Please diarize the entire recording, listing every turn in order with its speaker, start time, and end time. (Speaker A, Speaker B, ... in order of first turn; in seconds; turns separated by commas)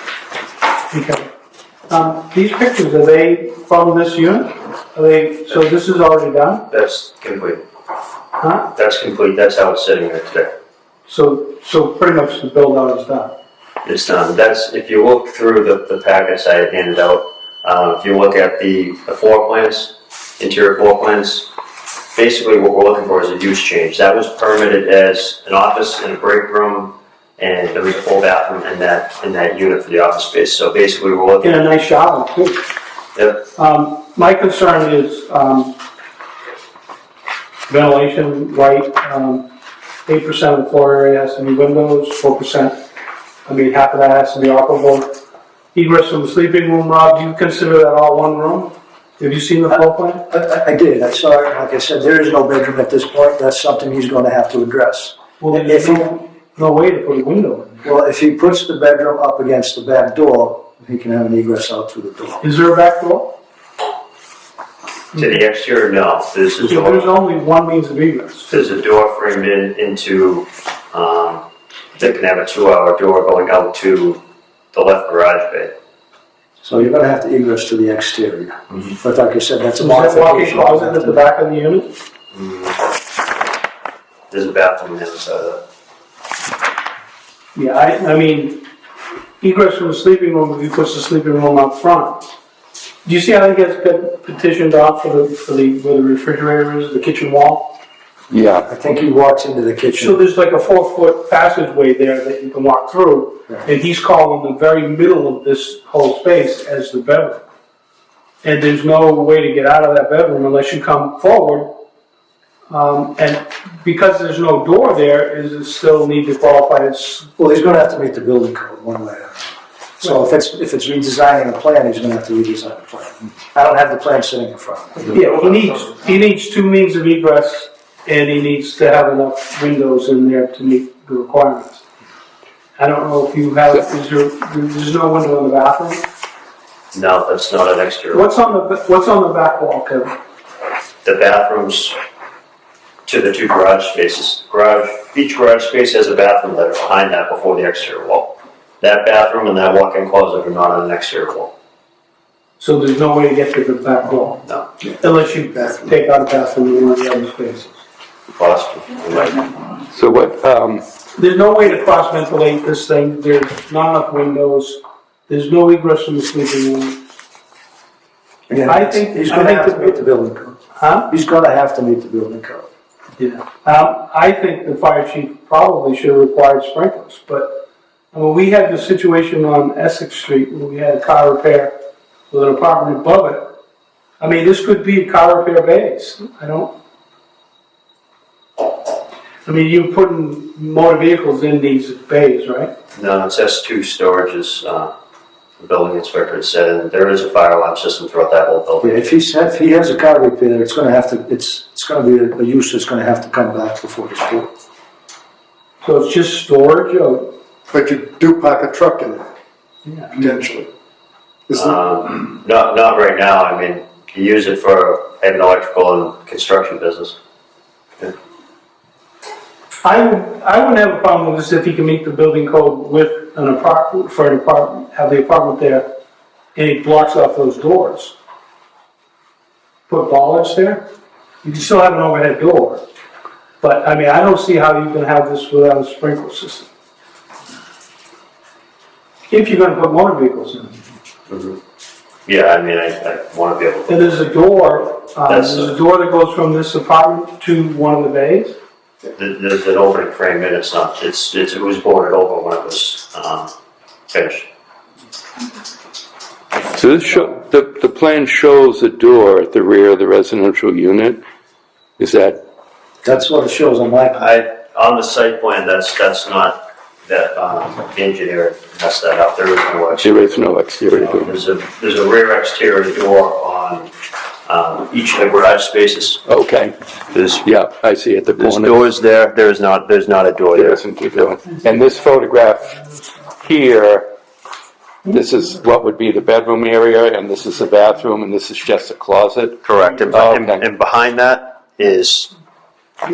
Speaker A: 0.9-1.2, Speaker A: 1.9-6.7, Speaker B: 6.7-7.6, Speaker A: 8.4-8.7, Speaker B: 8.8-10.5, Speaker A: 11.1-13.4, Speaker B: 13.8-21.5, Speaker B: 22.1-31.6, Speaker A: 31.4-32.6, Speaker B: 33.1-33.4, Speaker A: 33.5-35.8, Speaker A: 37.7-39.5, Speaker A: 40.1-42.8, Speaker A: 43.5-45.1, Speaker A: 45.7-50.2, Speaker C: 49.7-56.1, Speaker A: 55.4-57.9, Speaker C: 57.8-62.4, Speaker A: 62.4-63.4, Speaker B: 65.1-67.1, Speaker A: 66.6-68.5, Speaker B: 68.5-71.4, Speaker B: 72.0-74.2, Speaker B: 74.7-75.8, Speaker C: 76.6-81.2, Speaker A: 79.8-81.9, Speaker B: 82.3-82.9, Speaker B: 84.3-85.6, Speaker A: 87.5-88.7, Speaker A: 89.4-92.2, Speaker A: 93.0-97.7, Speaker D: 98.3-98.7, Speaker C: 98.7-100.2, Speaker A: 100.0-107.4, Speaker A: 108.4-111.7, Speaker A: 112.7-117.3, Speaker C: 117.4-125.3, Speaker A: 125.1-131.8, Speaker A: 132.8-136.1, Speaker B: 136.9-138.3, Speaker A: 138.1-140.1, Speaker B: 141.1-142.0, Speaker B: 143.1-151.5, Speaker A: 152.6-154.4, Speaker A: 155.0-157.8, Speaker B: 158.4-159.5, Speaker D: 159.9-160.8, Speaker A: 161.2-167.0, Speaker C: 168.5-172.7, Speaker A: 168.7-170.0, Speaker A: 170.8-171.1, Speaker A: 173.2-177.6, Speaker A: 178.1-181.7, Speaker A: 182.3-183.5, Speaker A: 184.2-186.7, Speaker A: 189.5-192.7, Speaker B: 192.9-194.9, Speaker B: 195.6-199.1, Speaker C: 198.8-204.5, Speaker A: 205.8-207.3, Speaker E: 207.7-209.2, Speaker A: 209.8-210.4, Speaker E: 210.2-210.7, Speaker E: 211.5-211.8, Speaker B: 211.5-217.2, Speaker A: 219.8-225.9, Speaker A: 226.6-228.2, Speaker A: 229.9-230.9, Speaker A: 231.4-232.8, Speaker A: 233.6-236.7, Speaker A: 239.3-240.8, Speaker B: 241.3-241.6, Speaker B: 242.3-244.3, Speaker A: 243.9-248.6, Speaker B: 245.3-245.8, Speaker B: 249.2-253.5, Speaker B: 254.1-254.5, Speaker D: 256.7-261.2, Speaker D: 262.0-262.4, Speaker C: 263.0-264.3, Speaker B: 264.1-273.9, Speaker D: 270.0-271.3, Speaker B: 274.5-276.2, Speaker D: 276.3-276.8, Speaker B: 277.1-277.4, Speaker D: 277.4-278.8, Speaker B: 278.4-280.8, Speaker D: 280.6-282.8, Speaker D: 283.4-284.1, Speaker D: 285.1-290.6, Speaker B: 289.6-292.3